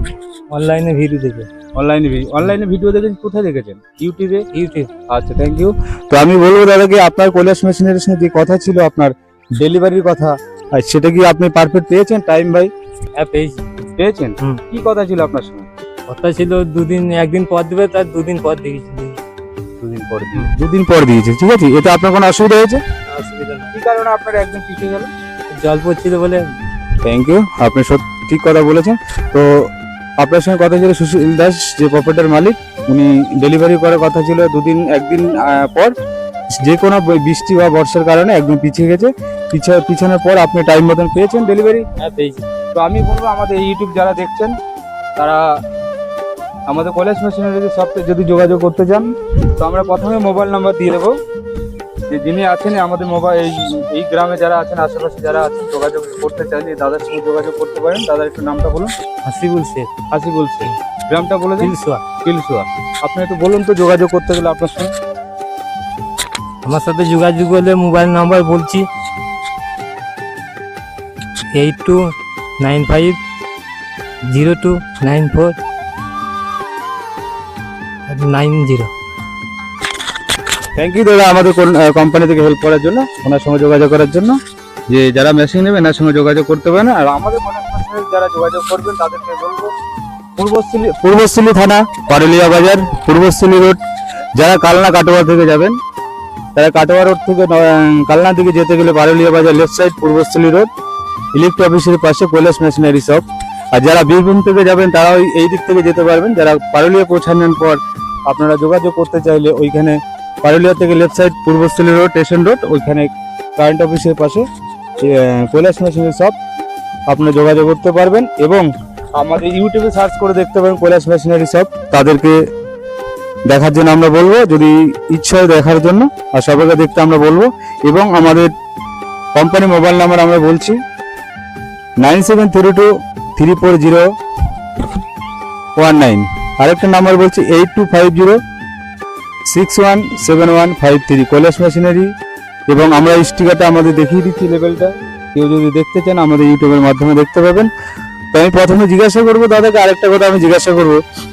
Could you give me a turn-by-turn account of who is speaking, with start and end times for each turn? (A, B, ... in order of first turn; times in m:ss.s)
0:00.5-0:01.5 A
0:01.8-0:04.4 B
0:04.5-0:04.9 A
0:05.1-0:12.7 B
0:13.2-0:13.6 A
0:14.0-0:15.7 B
0:16.1-0:19.2 A
0:19.8-0:22.8 B
0:23.1-0:23.7 A
0:23.7-0:25.1 B
0:25.5-0:26.5 A
0:27.0-0:29.7 B
0:30.2-0:35.9 B
0:36.6-0:41.8 B
0:42.0-0:42.4 A
0:42.7-0:44.5 B
0:46.7-0:51.1 B
0:52.1-0:58.9 B
0:59.2-0:59.9 A
1:00.1-1:04.9 B
1:01.6-1:02.0 A
1:06.6-1:08.9 A
1:11.5-1:12.0 A
1:12.6-1:13.2 A
1:14.3-1:15.6 A
1:18.1-1:18.9 A
1:20.8-1:24.4 B
1:24.9-1:29.7 B
1:30.4-1:33.8 B
1:34.4-1:35.8 B
1:36.6-1:40.7 B
1:41.3-1:54.4 B
1:55.0-1:56.3 B
1:57.1-2:02.4 B
2:03.5-2:08.5 B
2:09.4-2:10.8 B
2:12.0-2:14.0 B
2:15.8-2:18.4 B
2:19.5-2:22.1 B
2:22.7-2:27.7 B
2:28.3-2:31.0 B